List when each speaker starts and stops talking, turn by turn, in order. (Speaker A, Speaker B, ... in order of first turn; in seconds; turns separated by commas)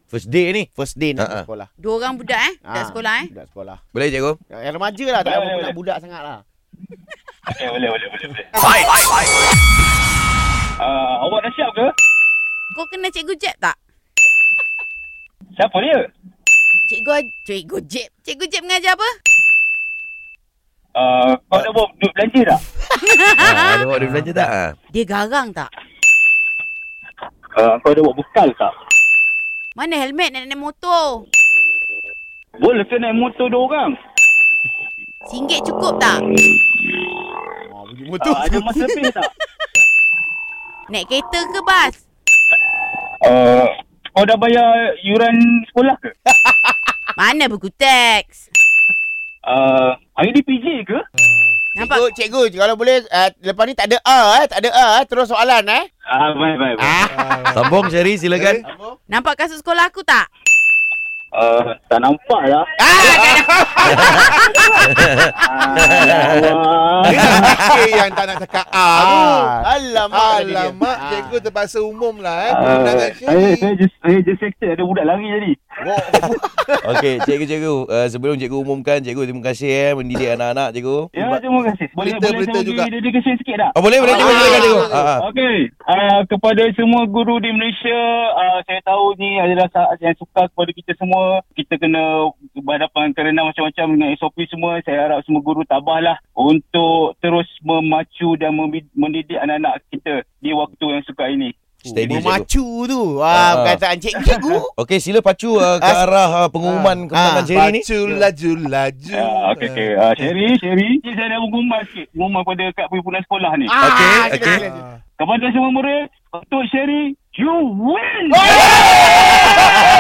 Speaker A: 0.1-1.4, Speaker B: 0.8-1.7, Speaker C: 1.8-3.3, Speaker B: 2.6-3.8, Speaker A: 3.9-4.4, Speaker B: 4.5-6.4, Speaker D: 5.2-5.8, Speaker D: 7.5-8.5, Speaker A: 8.6-9.2, Speaker D: 10.8-11.9, Speaker C: 12.7-13.8, Speaker D: 15.6-16.1, Speaker C: 16.9-19.1, Speaker D: 20.9-22.6, Speaker C: 23.0-23.9, Speaker A: 23.4-24.8, Speaker C: 24.9-25.7, Speaker D: 27.6-28.7, Speaker C: 29.8-31.2, Speaker D: 32.6-34.0, Speaker C: 35.3-36.2, Speaker B: 37.7-38.9, Speaker D: 38.2-39.3, Speaker C: 40.9-42.0, Speaker D: 43.2-46.1, Speaker B: 46.3-47.0, Speaker C: 47.2-48.4, Speaker D: 49.5-51.0, Speaker E: 51.2-51.6, Speaker C: 51.8-52.0, Speaker B: 51.8-55.9, Speaker D: 56.1-57.0, Speaker B: 56.8-57.7, Speaker E: 57.0-58.6, Speaker A: 57.5-58.6, Speaker B: 58.6-59.0, Speaker C: 59.1-60.3, Speaker D: 61.3-62.7, Speaker B: 62.8-64.4, Speaker C: 63.0-64.4, Speaker E: 63.1-64.6, Speaker D: 64.3-67.6, Speaker A: 64.9-66.4, Speaker B: 65.5-66.4, Speaker E: 67.0-73.7, Speaker B: 67.3-67.8, Speaker B: 68.9-71.5, Speaker D: 72.5-75.6, Speaker B: 75.9-76.7, Speaker A: 76.8-81.1, Speaker D: 81.1-101.5, Speaker E: 82.0-82.9, Speaker A: 83.8-85.2, Speaker B: 84.0-85.1, Speaker E: 84.5-84.8, Speaker B: 101.8-104.7, Speaker A: 101.9-102.5, Speaker A: 103.3-103.8, Speaker D: 104.2-104.6, Speaker A: 104.8-107.9, Speaker B: 105.8-106.1, Speaker E: 106.7-107.0, Speaker B: 107.1-108.3, Speaker E: 107.5-109.9, Speaker D: 109.1-113.7, Speaker B: 113.7-114.9, Speaker A: 113.8-114.7, Speaker E: 114.4-115.0, Speaker D: 115.2-118.9, Speaker B: 118.5-119.8